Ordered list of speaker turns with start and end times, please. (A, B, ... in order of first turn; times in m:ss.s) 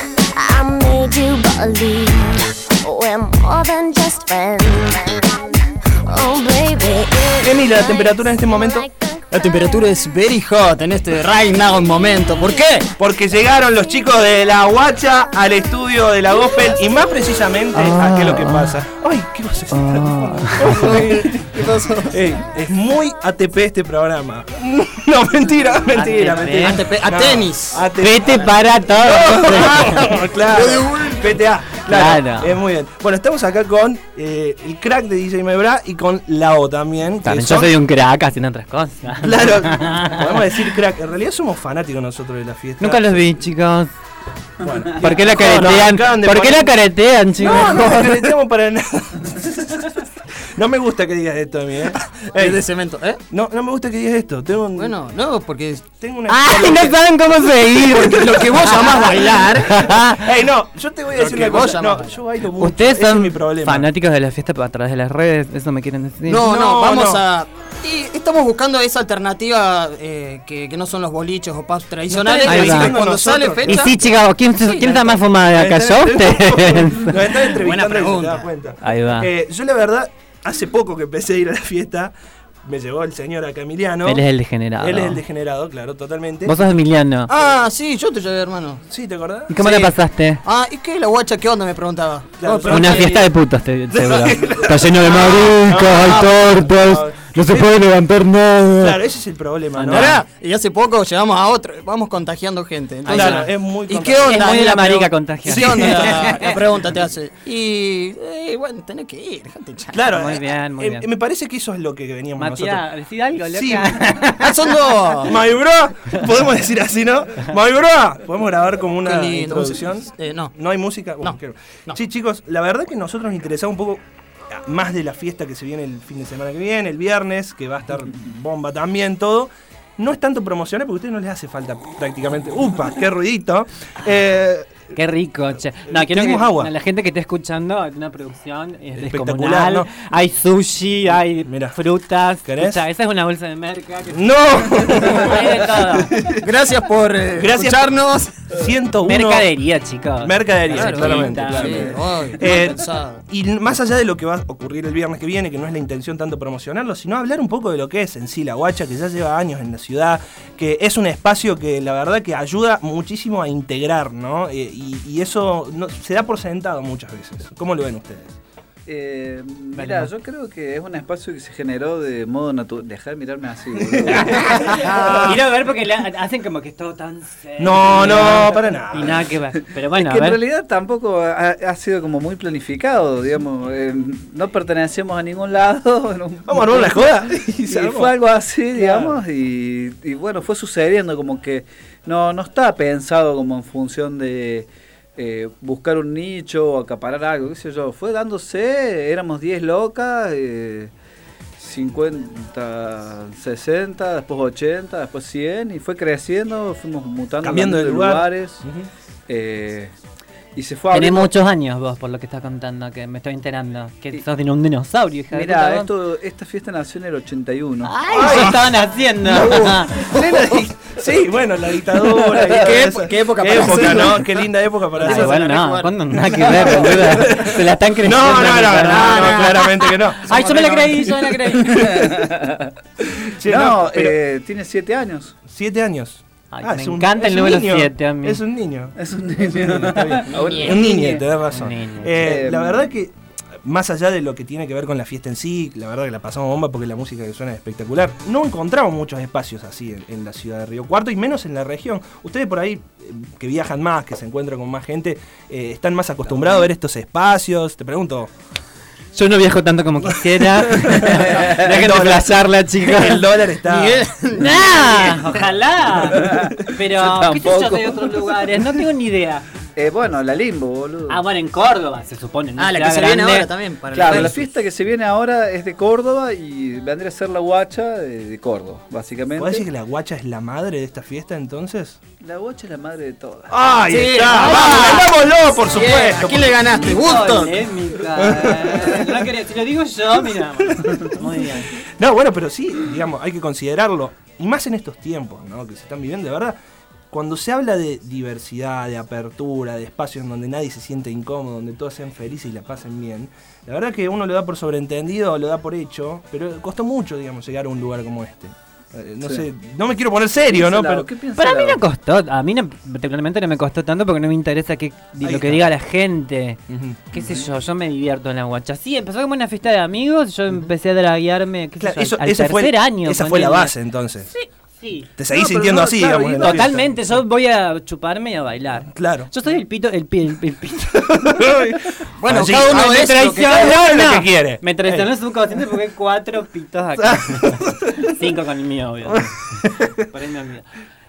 0:00.4-0:05.4 A
0:06.1-0:07.9 A
0:07.4-0:08.9 B
0:09.3-0:12.9 C
0:13.0-0:21.6 B
0:17.7-0:18.8 D
0:19.7-0:20.8 D
0:20.7-0:22.2 C
0:22.1-0:37.8 B
0:25.9-0:26.8 D
0:26.0-0:28.4 C
0:28.0-0:30.0 D
0:29.3-0:31.5 C
0:31.9-0:32.6 D
0:37.2-0:40.6 D
0:39.2-0:43.4 B
0:42.8-0:43.9 D
0:44.6-0:46.7 B
0:45.0-0:48.3 D
0:47.4-0:52.6 B
0:51.9-0:53.2 C
0:53.3-0:55.0 B
0:54.7-0:55.8 C
0:56.0-0:57.0 B
0:56.3-1:00.4 D
0:57.9-0:59.9 C
0:59.8-1:03.9 B
1:01.1-1:02.2 C
1:02.6-1:06.4 D
1:06.3-1:15.2 C
1:06.3-1:07.2 B
1:12.1-1:14.2 B
1:12.3-1:13.0 D
1:13.6-1:17.4 D
1:15.5-1:22.1 B
1:17.4-1:18.5 C
1:18.8-1:19.3 D
1:22.6-1:24.3 B
1:24.0-1:25.2 D
1:24.8-1:26.6 B
1:26.4-1:27.3 D
1:27.3-1:28.9 C
1:28.9-1:29.5 B
1:29.5-1:30.4 D
1:29.6-1:33.3 C
1:32.4-1:33.3 B
1:32.7-1:39.0 D
1:33.9-1:37.9 B
1:34.9-1:36.3 C
1:38.8-1:40.2 B
1:39.8-1:50.1 C
1:39.8-1:40.2 D
1:43.0-1:43.5 D
1:43.1-1:44.4 B
1:44.2-1:46.6 D
1:45.4-1:46.4 B
1:49.9-1:52.9 B
1:50.1-1:51.1 D
1:52.4-1:54.6 D
1:53.4-1:54.2 B
1:54.4-1:55.4 C
1:55.2-2:15.0 B
1:59.0-2:00.6 C
2:01.2-2:02.0 C
2:14.9-2:26.1 D
2:15.8-2:16.7 B
2:19.0-2:19.9 B
2:21.4-2:21.8 B
2:22.4-2:22.8 B
2:24.1-2:26.5 B
2:26.4-2:28.5 C
2:27.4-2:28.0 B
2:28.5-2:29.5 B
2:29.0-2:32.0 D
2:30.2-2:48.3 B
2:30.7-2:33.2 C
2:48.9-2:55.4 E
2:49.8-2:50.1 D
2:53.9-2:54.4 B
2:54.1-3:00.4 D
2:54.7-2:55.1 C
2:57.6-2:59.2 B
2:59.9-3:20.9 E
3:06.5-3:08.2 B
3:08.8-3:09.1 B
3:21.6-3:28.6 E
3:27.4-3:28.9 B
3:29.3-3:30.0 E
3:30.6-3:31.3 E
3:30.9-3:35.9 D
3:35.3-3:37.9 E
3:37.8-3:40.1 D
3:38.1-3:38.7 B
3:38.2-3:38.6 C
3:39.2-3:40.4 C
3:39.3-3:45.4 B
3:42.3-3:44.4 C
3:42.3-3:42.7 E
3:44.9-3:46.9 C
3:45.0-3:49.5 D
3:46.4-3:47.1 E
3:46.6-3:52.3 B
3:48.4-3:50.8 C
3:50.2-3:51.9 D
3:51.6-3:52.7 E
3:53.2-3:54.2 B
3:53.4-3:55.3 E
3:55.5-4:18.3 B
3:56.5-3:58.4 D
3:59.0-4:01.2 E
4:00.3-4:01.0 C
4:01.5-4:02.2 D
4:02.2-4:02.8 E
4:19.1-4:23.2 D
4:20.0-4:24.0 B
4:21.3-4:21.6 E
4:23.3-4:25.4 C
4:24.4-4:29.4 D
4:26.1-4:28.7 E
4:29.8-4:31.2 E
4:31.1-4:33.5 D
4:32.6-4:34.5 C
4:33.9-4:39.7 E
4:39.4-4:42.0 B
4:42.2-4:43.6 E
4:43.5-4:46.9 B
4:43.9-4:45.1 C
4:44.3-4:45.1 D
4:45.7-4:47.6 C
4:46.7-4:51.7 D
4:48.1-4:49.3 B
4:50.4-4:56.6 B
4:57.1-5:11.1 B
5:10.5-5:11.8 E
5:11.3-5:16.6 D
5:15.2-5:15.7 B
5:16.7-5:17.1 B
5:17.1-5:23.8 D
5:17.1-5:17.5 E
5:21.8-5:24.3 B
5:24.3-5:25.1 D
5:25.2-5:26.8 B
5:25.3-5:26.9 E
5:26.4-5:31.4 D
5:28.9-5:29.3 B
5:31.1-5:32.8 B
5:32.2-5:33.8 C
5:32.7-5:40.7 D
5:33.5-5:35.1 B
5:37.0-5:38.0 B